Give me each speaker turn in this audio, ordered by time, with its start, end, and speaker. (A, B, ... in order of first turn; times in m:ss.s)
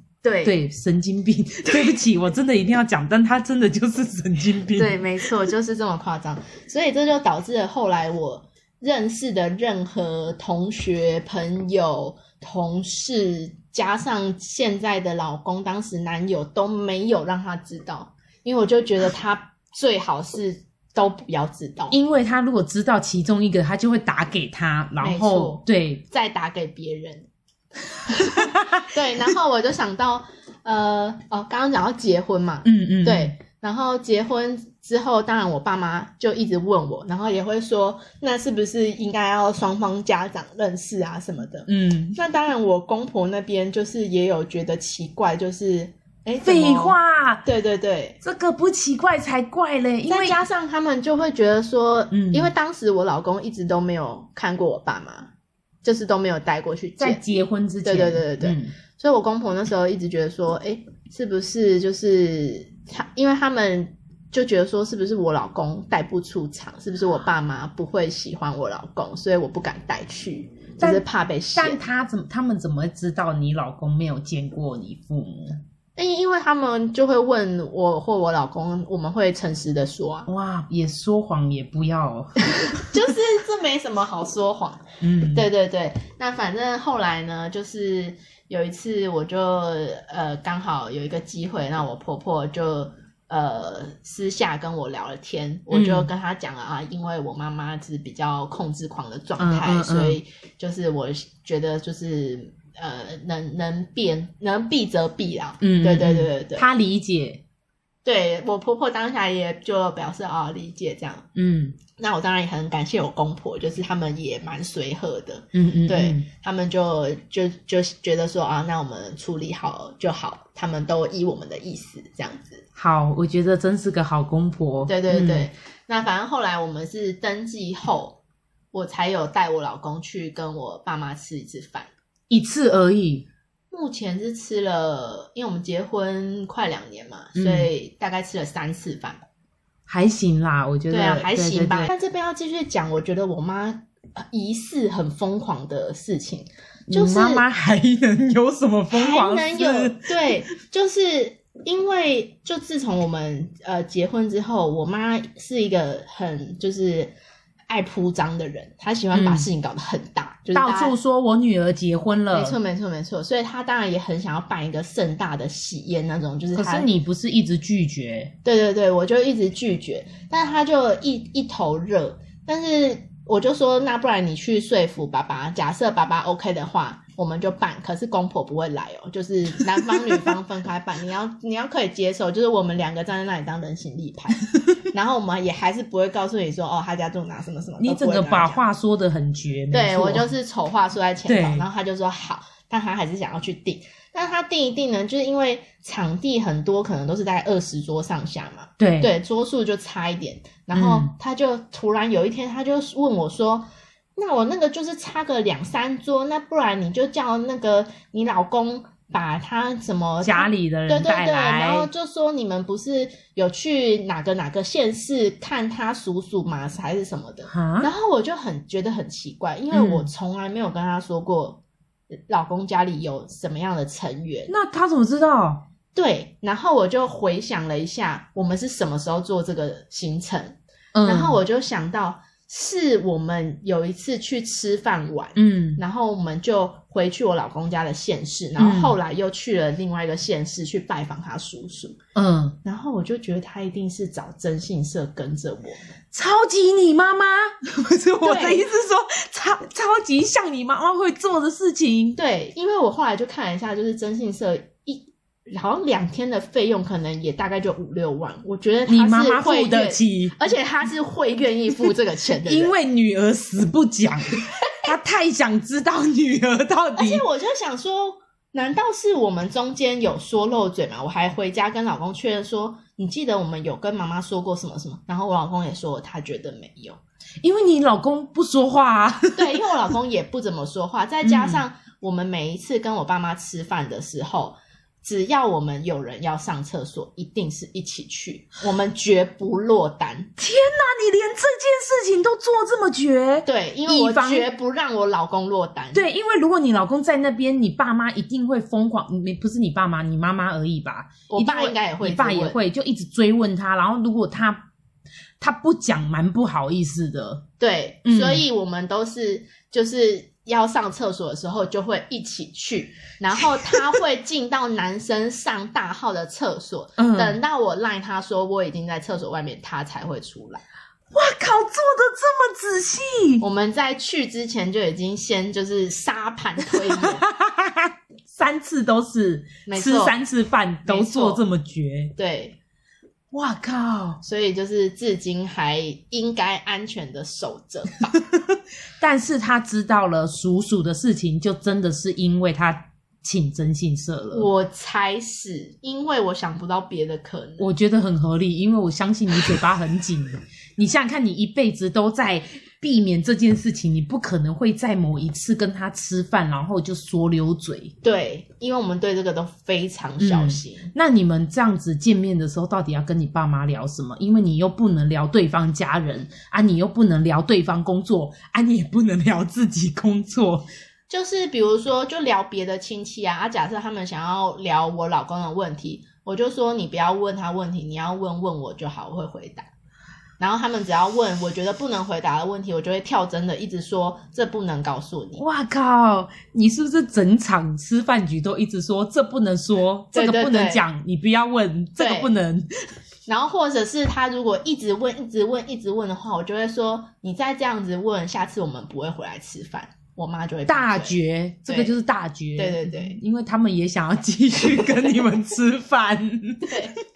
0:00.2-0:00.6 A
0:00.4-0:05.0 B
0:04.7-0:22.0 A
0:21.9-0:26.0 B
0:25.0-0:27.3 A
0:28.1-0:48.2 A
0:28.2-0:28.8 B
0:32.6-0:33.4 B
0:41.7-0:42.2 B
0:46.4-0:47.4 B
0:48.2-0:50.4 B
0:50.1-0:55.3 A
0:52.1-0:52.5 B
0:55.8-1:11.8 A
0:57.0-0:58.7 B
1:11.6-1:15.6 B
1:16.0-1:20.3 A
1:20.3-1:22.9 B
1:22.9-1:46.7 A
1:25.0-1:25.5 B
1:35.7-1:36.1 B
1:39.4-1:40.2 B
1:45.6-1:47.4 B
1:48.0-1:51.3 A
1:51.4-1:51.8 B
1:52.0-2:02.6 A
1:55.5-1:56.3 B
2:02.8-2:05.5 B
2:04.9-2:08.2 A
2:08.7-2:11.9 A
2:12.3-2:13.3 B
2:13.7-2:19.2 A
2:17.4-2:17.7 B
2:19.9-2:21.9 B
2:20.9-2:27.4 A
2:26.9-2:30.2 B
2:28.9-2:37.1 A
2:37.7-2:41.0 A
2:39.1-2:39.5 B
2:40.6-2:42.6 B
2:42.3-2:46.9 A
2:46.6-2:48.3 B
2:48.4-3:08.6 A
2:59.8-3:00.2 B
3:07.8-3:10.3 B
3:09.7-3:41.6 A
3:11.3-3:11.7 B
3:18.8-3:19.1 B
3:20.7-3:21.1 B
3:30.2-3:31.9 B
3:37.5-3:37.9 B
3:39.7-3:40.1 B
3:42.3-3:44.5 A
3:44.5-3:45.6 B
3:45.9-4:02.0 A
3:51.0-3:51.4 B
3:55.4-3:55.8 B
3:58.6-3:59.0 B
4:02.2-4:02.6 B
4:02.6-4:05.8 A
4:06.1-4:12.2 B
4:08.2-4:08.6 A
4:12.2-4:22.7 A
4:18.9-4:20.4 B
4:22.4-4:27.2 B
4:27.0-4:37.0 A
4:37.4-4:39.7 B
4:39.4-4:50.3 A
4:41.2-4:41.6 B
4:50.4-4:54.5 B
4:53.5-4:56.0 A
4:55.9-5:04.7 B
5:01.3-5:02.6 A
5:05.4-5:07.4 B
5:07.6-5:20.6 A
5:08.0-5:08.4 B
5:17.0-5:17.4 B
5:21.1-5:23.4 B
5:23.4-5:27.2 A
5:26.6-5:32.2 B
5:29.7-5:30.2 A
5:30.9-5:31.4 A
5:32.2-5:32.6 A
5:33.3-5:34.2 B
5:34.2-5:38.2 A
5:38.2-5:44.5 B
5:44.3-5:47.7 A
5:47.6-5:58.0 B
5:58.0-6:00.9 A
6:00.2-6:10.7 B
6:11.1-6:19.7 A
6:20.4-6:25.4 A
6:25.4-6:32.7 B
6:30.1-6:30.8 A
6:32.0-6:32.3 A
6:33.3-6:41.9 A
6:40.7-6:46.8 B
6:42.6-6:43.2 A
6:46.6-6:47.0 A